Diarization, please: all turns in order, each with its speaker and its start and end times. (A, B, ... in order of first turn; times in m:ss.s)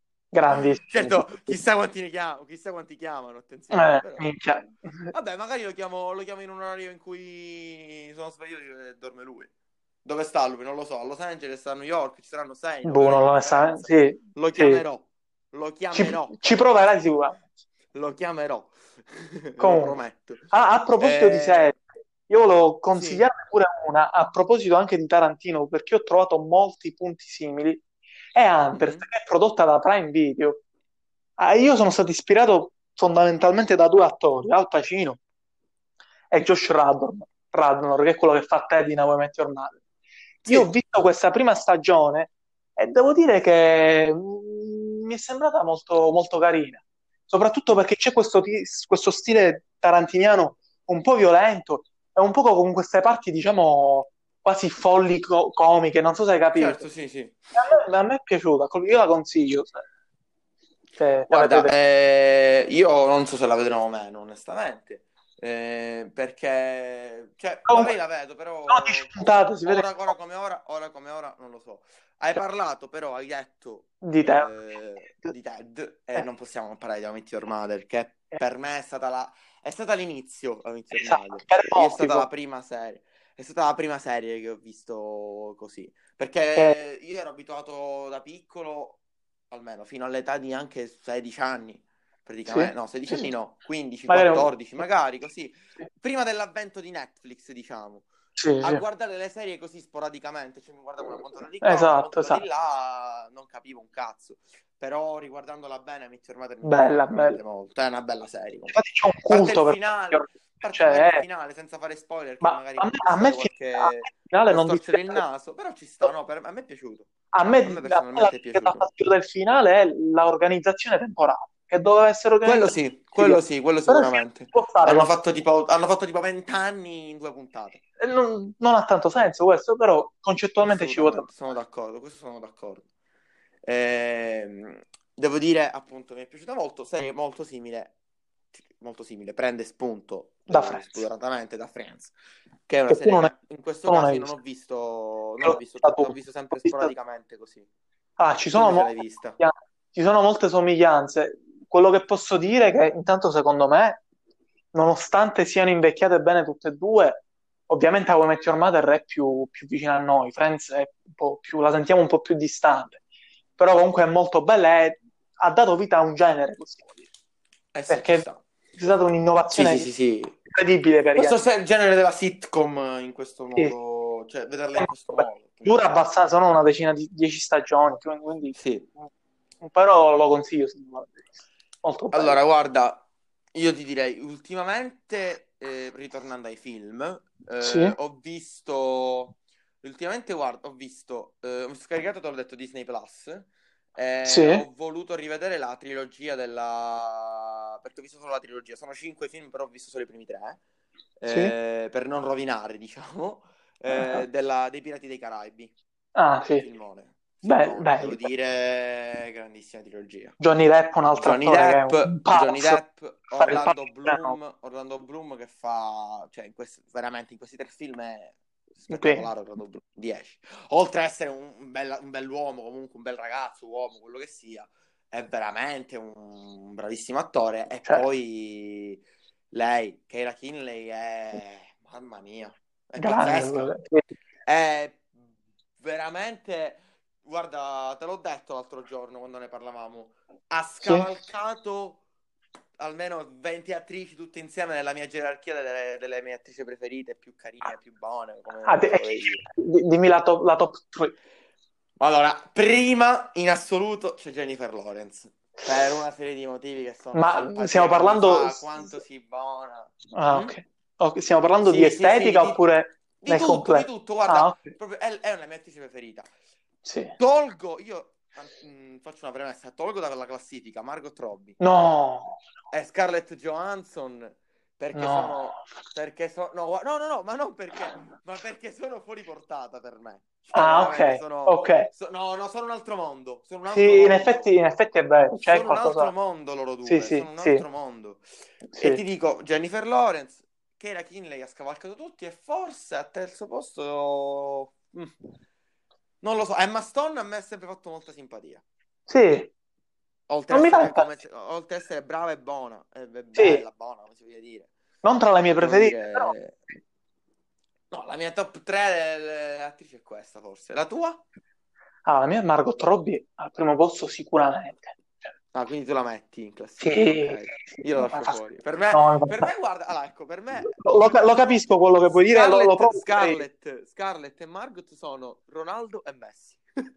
0:00.3-0:01.5 A
0:00.5-0:04.3 B
0:03.7-0:05.1 A
0:05.1-0:09.5 B
0:10.0-0:16.7 B
0:12.8-0:14.8 A
0:15.9-0:17.4 A
0:17.9-0:20.4 B
0:19.6-0:20.0 A
0:20.5-0:27.8 A
0:21.0-0:21.7 B
0:22.9-0:23.2 B
0:28.3-0:30.6 A
0:28.7-0:29.1 B
0:31.4-0:35.2 A
0:36.3-0:39.8 A
0:40.4-0:40.7 B
0:40.4-0:56.8 A
0:56.5-0:57.4 B
0:57.5-0:59.8 A
1:01.0-1:01.7 A
1:01.3-1:38.1 B
1:07.7-1:07.9 A
1:08.7-1:09.9 A
1:14.0-1:14.5 A
1:20.9-1:22.3 A
1:32.4-1:33.3 A
1:34.1-1:34.5 A
1:38.4-1:38.8 A
1:38.6-1:48.8 B
1:41.6-1:42.4 A
1:46.6-1:47.4 A
1:48.7-1:51.2 A
1:49.3-1:58.9 B
1:52.4-1:55.2 A
1:57.3-2:05.1 A
2:02.4-2:07.8 B
2:08.0-2:11.3 A
2:10.6-2:12.8 B
2:13.6-2:17.9 B
2:18.5-2:22.1 B
2:20.5-2:21.0 A
2:22.7-2:27.7 B
2:22.9-2:23.3 A
2:23.9-2:24.3 A
2:25.4-2:26.9 A
2:28.2-2:34.0 A
2:28.5-2:29.4 B
2:34.7-2:43.0 A
2:43.6-2:47.0 A
2:47.7-2:48.4 B
2:47.9-2:48.2 A
2:48.8-2:49.9 A
2:49.5-2:50.3 B
2:50.4-2:51.4 A
2:51.2-2:56.0 B
2:54.8-2:58.6 A
2:58.5-2:58.9 B
2:59.6-3:01.3 A
3:01.8-3:02.4 A
3:02.1-3:20.6 B
3:07.6-3:08.0 A
3:14.2-3:14.6 A
3:21.2-3:25.7 B
3:21.3-3:21.5 A
3:23.9-3:24.2 A
3:26.2-3:26.6 A
3:26.6-3:30.4 B
3:27.4-3:28.2 A
3:30.4-3:32.8 A
3:31.1-3:53.7 B
3:33.3-3:34.4 A
3:38.9-3:39.3 A
3:53.0-3:54.0 A
3:54.4-3:55.1 B
3:55.8-4:02.0 B
4:00.8-4:01.1 A
4:02.8-4:09.4 B
4:08.6-4:11.1 A
4:12.0-4:20.5 B
4:17.1-4:18.9 A
4:20.1-4:24.7 A
4:21.6-4:22.6 B
4:23.2-4:26.3 B
4:26.8-4:27.1 A
4:27.2-4:31.6 B
4:31.6-4:32.4 A
4:32.7-4:44.5 B
4:34.9-4:35.6 A
4:40.5-4:41.9 A
4:43.7-4:46.1 A
4:45.4-4:48.2 B
4:46.8-4:47.6 A
4:48.7-4:49.0 A
4:48.8-4:55.1 B
4:56.2-4:58.6 B
4:59.1-4:59.5 A
5:00.3-5:04.7 B
5:00.5-5:01.1 A
5:03.3-5:03.6 A
5:05.0-5:06.3 A
5:05.6-5:06.6 B
5:07.9-5:11.2 B
5:12.0-5:15.3 A
5:15.5-5:21.4 B
5:16.8-5:19.5 A
5:20.6-5:23.4 A
5:22.1-5:26.6 B